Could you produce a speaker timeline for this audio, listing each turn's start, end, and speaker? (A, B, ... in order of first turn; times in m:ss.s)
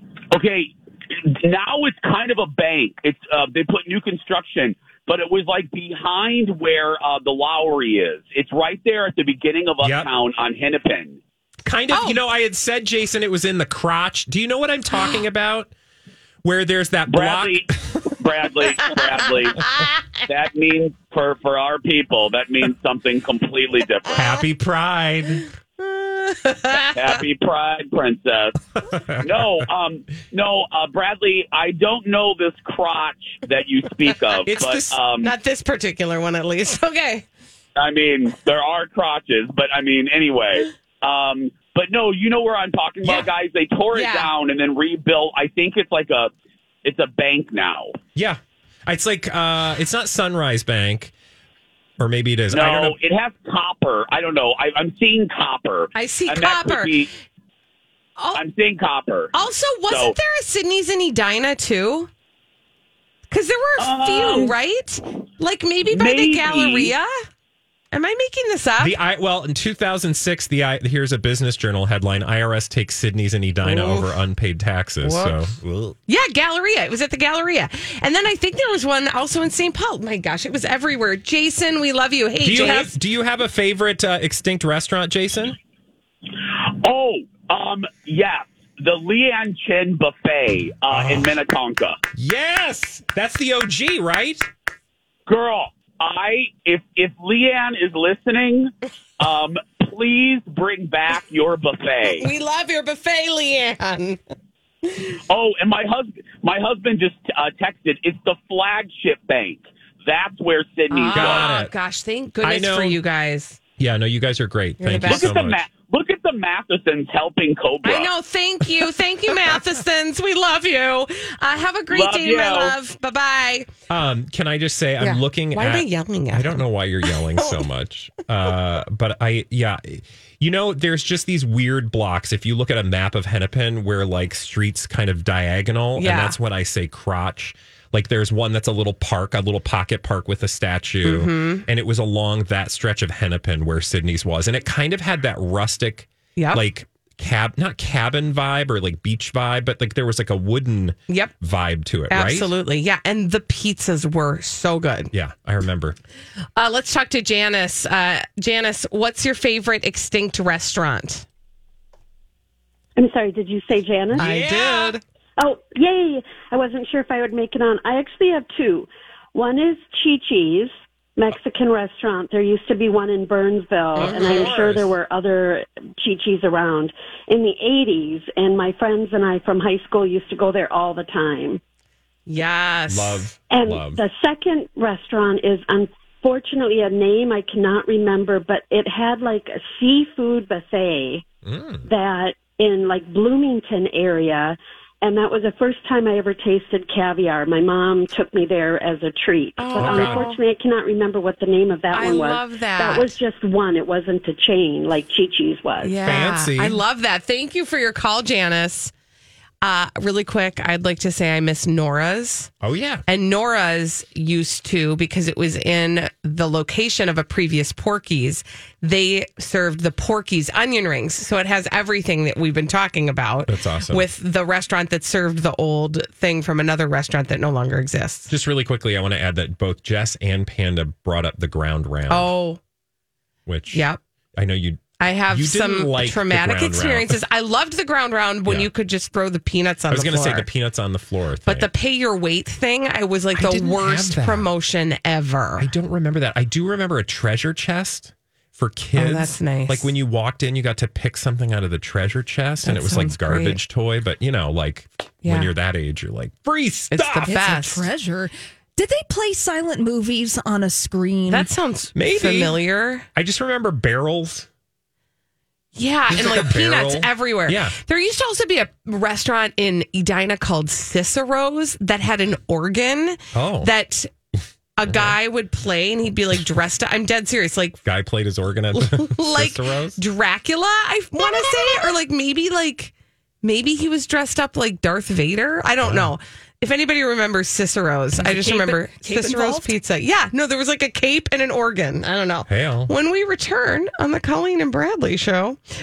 0:00.3-0:11.2 A
0:09.8-0:10.1 B
0:11.6-0:15.7 B
0:11.9-0:12.2 C
0:16.4-0:18.0 B
0:17.1-0:19.6 A
0:20.2-0:24.4 A
0:24.1-0:25.4 B
0:25.8-0:27.0 C
0:26.9-0:28.6 A
0:28.8-0:29.6 B
0:29.2-0:35.3 A
0:34.4-0:35.0 B
0:35.2-0:37.2 C
0:37.8-0:46.3 A
0:43.9-0:44.3 C
0:46.8-0:47.9 A
0:48.1-0:51.1 B
0:52.0-0:53.0 B
0:52.5-0:57.1 A
0:55.9-0:57.0 C
0:58.3-0:59.4 A
0:59.3-1:02.1 C
0:59.9-1:00.2 A
1:03.3-1:07.2 C
1:03.8-1:04.6 A
1:05.9-1:06.9 A
1:07.9-1:09.0 C
1:08.8-1:16.0 B
1:13.6-1:14.2 C
1:15.0-1:15.4 C
1:16.1-1:22.9 C
1:22.4-1:25.6 B
1:26.3-1:32.0 A
1:30.9-1:31.3 B
1:32.1-1:34.5 B
1:35.3-1:42.3 A
1:42.1-1:44.2 C
1:45.3-1:51.5 A
1:50.9-1:53.6 C
1:51.1-1:51.7 B
1:52.4-1:53.0 B
1:53.8-1:55.6 B
1:54.8-1:55.4 C
1:55.0-1:58.1 A
1:57.8-2:03.7 C
2:01.9-2:02.8 A
2:03.9-2:32.5 B
2:05.0-2:07.6 C
2:16.0-2:16.4 C
2:21.0-2:21.6 C
2:26.4-2:26.6 C
2:31.1-2:31.3 C
2:32.1-2:35.1 C
2:35.1-2:36.0 B
2:36.6-2:41.2 C
2:43.0-2:44.3 D
2:44.2-2:45.0 C
2:44.2-2:45.0 B
2:45.4-3:01.6 D
2:54.0-2:54.5 C
2:54.0-2:54.9 B
3:02.3-3:03.2 C
3:02.9-3:04.0 B
3:03.5-3:11.2 D
3:11.4-3:11.9 B
3:11.8-3:26.0 D
3:19.6-3:20.4 C
3:19.8-3:20.2 B
3:21.9-3:23.2 C
3:25.8-3:28.9 C
3:26.0-3:26.8 B
3:29.6-3:32.5 C
3:32.6-3:33.0 B
3:33.1-3:48.3 C
3:43.5-3:44.0 B
3:48.3-3:52.3 B
3:52.1-3:52.6 C
3:53.4-3:57.2 B
3:53.7-3:54.0 C
3:55.0-4:00.5 C
3:59.9-4:01.7 B
4:01.4-4:05.7 C
4:03.3-4:04.5 B
4:05.6-4:17.4 B
4:09.0-4:09.9 C
4:12.6-4:13.6 C
4:15.2-4:15.5 C
4:16.9-4:17.8 C
4:17.3-4:21.5 E
4:21.3-4:23.0 C
4:21.9-4:22.6 B
4:23.1-4:24.5 B
4:25.7-4:34.1 C
4:26.1-4:27.8 B
4:33.3-4:33.7 B
4:34.8-4:37.8 C
4:34.8-4:35.2 B
4:37.8-4:40.0 B
4:38.7-4:55.6 C
4:45.8-4:46.1 B
4:48.1-4:49.8 E
4:52.5-4:52.9 B